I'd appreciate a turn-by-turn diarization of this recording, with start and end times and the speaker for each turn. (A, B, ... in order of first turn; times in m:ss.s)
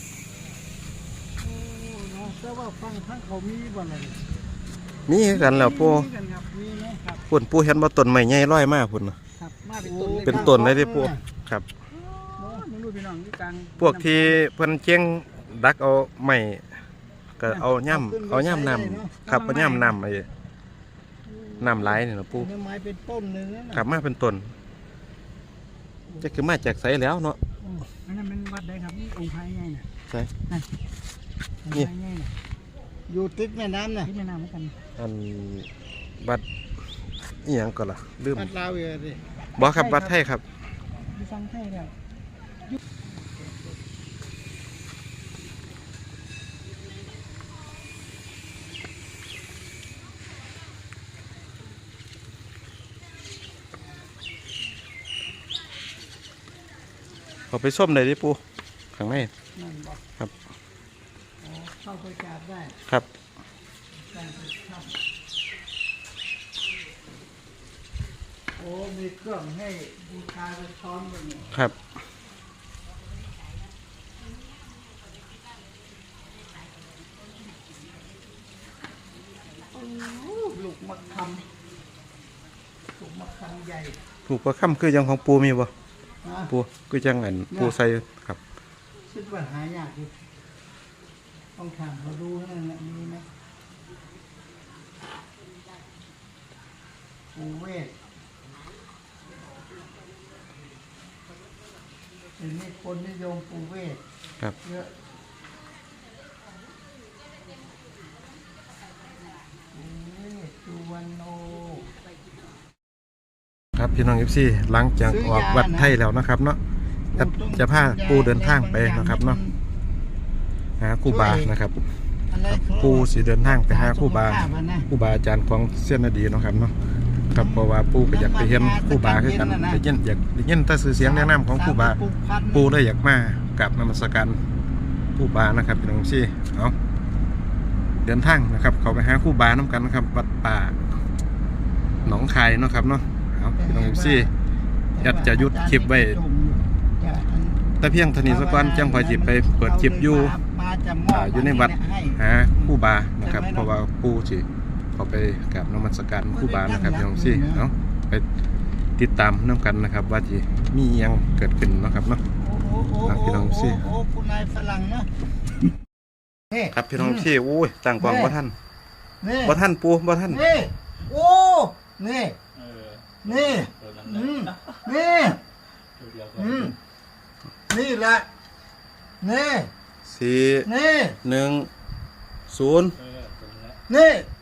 0:01.4-0:04.2 A
0:05.1-0:06.1 B
0:05.5-0:07.2 A
0:07.3-0:09.2 B
0:09.4-0:10.7 C
0:09.8-0:11.2 A
0:10.2-0:11.7 B
0:12.2-0:14.2 C
0:12.4-0:12.6 A
0:13.8-0:16.7 B
0:17.4-0:20.3 B
0:17.9-0:19.3 A
0:19.3-0:19.9 C
0:21.4-0:23.8 A
0:21.6-0:22.5 B
0:23.7-0:24.5 B
0:26.2-0:27.4 B
0:28.0-0:29.9 C
0:31.7-0:32.3 C
0:33.1-0:34.1 A
0:34.0-0:34.7 C
0:35.0-0:36.4 B
0:37.4-0:38.5 B
0:38.4-0:39.2 A
0:39.6-0:40.4 B
0:39.6-0:40.1 C
0:41.1-0:41.9 C
0:57.5-0:58.4 B
0:58.9-0:59.3 B
0:59.5-1:00.0 A
1:01.4-1:02.8 A
1:04.1-1:04.9 A
1:08.6-1:11.5 A
1:19.7-1:21.5 A
1:23.0-1:24.0 A
1:24.3-1:25.7 B
1:26.2-1:26.5 A
1:26.5-1:28.4 B
1:29.1-1:30.1 A
1:31.6-1:33.3 A
1:37.3-1:37.9 A
1:42.4-1:44.0 A
1:44.6-1:44.9 A
1:49.7-1:51.9 A
1:53.7-1:56.6 B
1:55.1-1:55.9 A
1:57.2-1:59.4 B
1:57.2-1:59.6 A
2:00.8-2:01.8 B
2:01.1-2:01.5 A
2:02.3-2:04.9 A
2:02.5-2:06.7 B
2:07.3-2:12.0 B
2:07.4-2:09.8 A
2:11.0-2:12.7 A
2:12.5-2:14.4 B
2:15.2-2:16.8 B
2:18.0-2:20.8 B
2:22.0-2:24.3 B
2:23.6-2:24.3 A
2:24.9-2:27.7 A
2:25.0-2:26.2 B
2:27.8-2:30.4 B
2:28.3-2:33.7 A
2:31.1-2:38.2 B
2:36.3-2:37.6 A
2:39.0-2:42.2 B
2:42.4-2:45.2 A
2:43.0-2:43.9 B
2:46.5-2:47.3 A
2:46.7-2:48.6 B
2:48.0-2:48.4 A
2:49.2-2:49.6 A
2:49.4-2:50.4 B
2:50.3-2:52.4 A
2:52.6-2:54.9 D
2:53.2-2:55.4 A
2:56.0-2:56.8 D
2:56.4-2:56.8 A
2:57.7-2:58.3 A
2:59.2-2:59.7 A
3:00.0-3:00.7 B
3:00.6-3:01.2 A
3:01.2-3:01.7 B
3:02.5-3:03.0 B
3:03.0-3:03.8 D
3:03.9-3:04.3 A